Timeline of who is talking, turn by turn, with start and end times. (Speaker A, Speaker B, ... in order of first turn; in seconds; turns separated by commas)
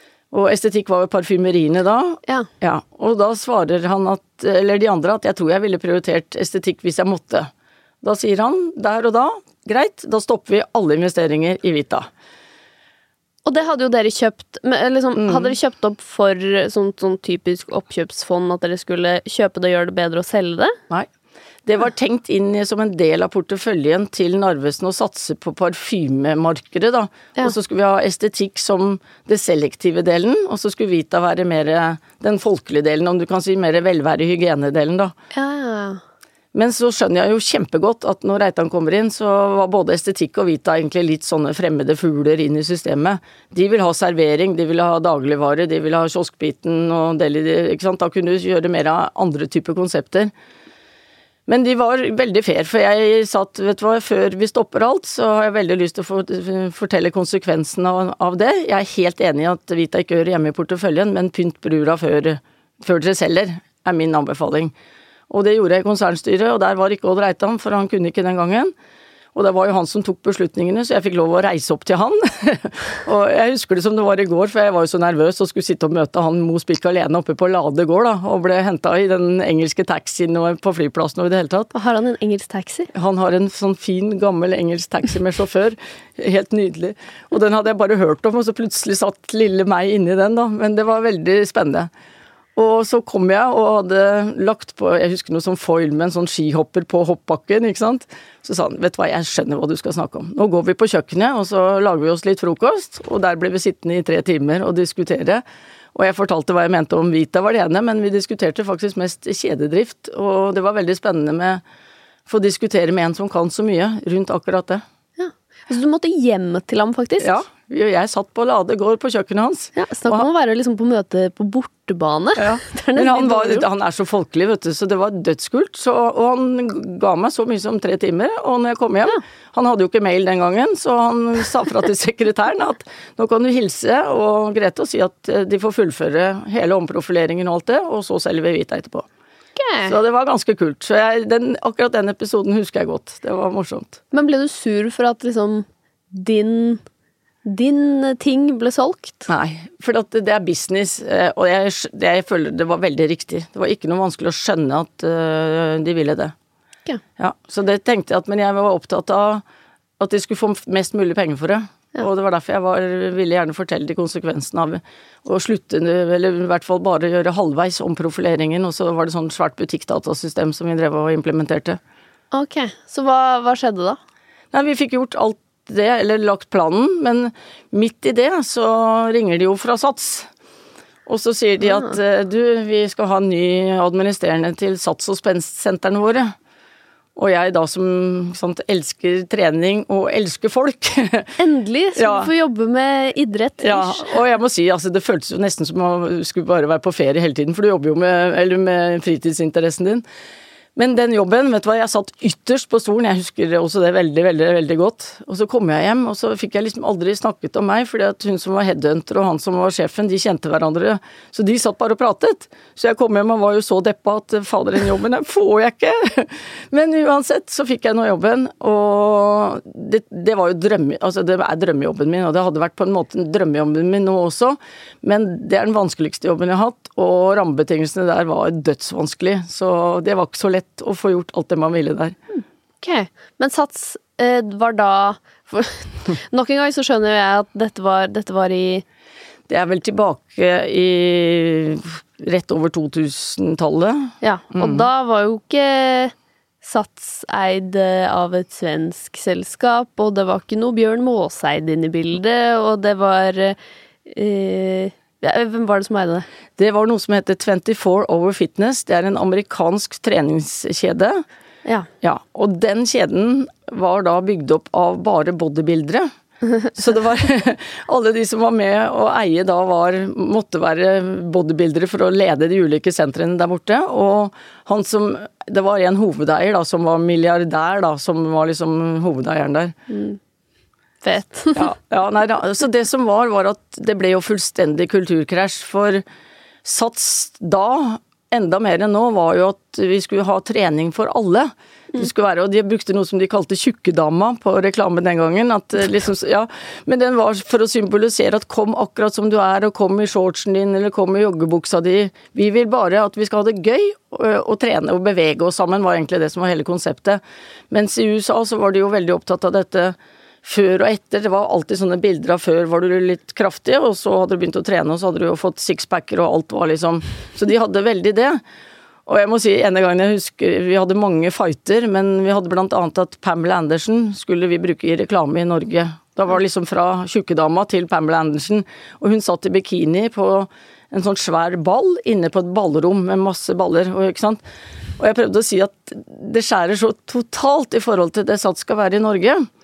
Speaker A: 0.3-7.5, Speaker A: 8.0-12.1, Speaker B: 13.4-20.8, Speaker A: 15.1-15.6, Speaker A: 21.6-35.1, Speaker B: 35.3-36.0, Speaker A: 36.5-50.3, Speaker A: 51.5-64.7, Speaker A: 65.3-68.7, Speaker A: 69.3-81.7, Speaker B: 81.7-82.9, Speaker A: 82.9-91.9, Speaker A: 92.5-105.4, Speaker A: 105.9-111.6, Speaker A: 112.3-114.8, Speaker B: 115.2-117.4, Speaker A: 117.2-120.3, Speaker B: 119.8-123.7, Speaker A: 122.4-139.1, Speaker B: 139.6-139.9, Speaker A: 139.8-144.0, Speaker B: 144.1-146.8, Speaker B: 147.4-149.3, Speaker A: 149.3-156.3, Speaker A: 157.2-159.4, Speaker A: 160.0-171.8, Speaker B: 172.3-174.0, Speaker A: 174.5-180.3, Speaker A: 181.1-186.3, Speaker B: 181.6-181.9, Speaker A: 187.2-191.3, Speaker B: 191.4-194.1, Speaker A: 191.9-192.3, Speaker A: 193.6-200.0, Speaker A: 200.8-232.2, Speaker B: 232.3-238.8, Speaker A: 239.5-244.8, Speaker B: 244.2-256.2, Speaker A: 256.6-261.2, Speaker A: 262.0-266.1, Speaker A: 266.7-279.7, Speaker B: 279.9-280.2, Speaker B: 281.0-281.7, Speaker A: 281.5-286.0, Speaker A: 286.6-318.4, Speaker A: 319.1-334.4, Speaker A: 335.0-339.5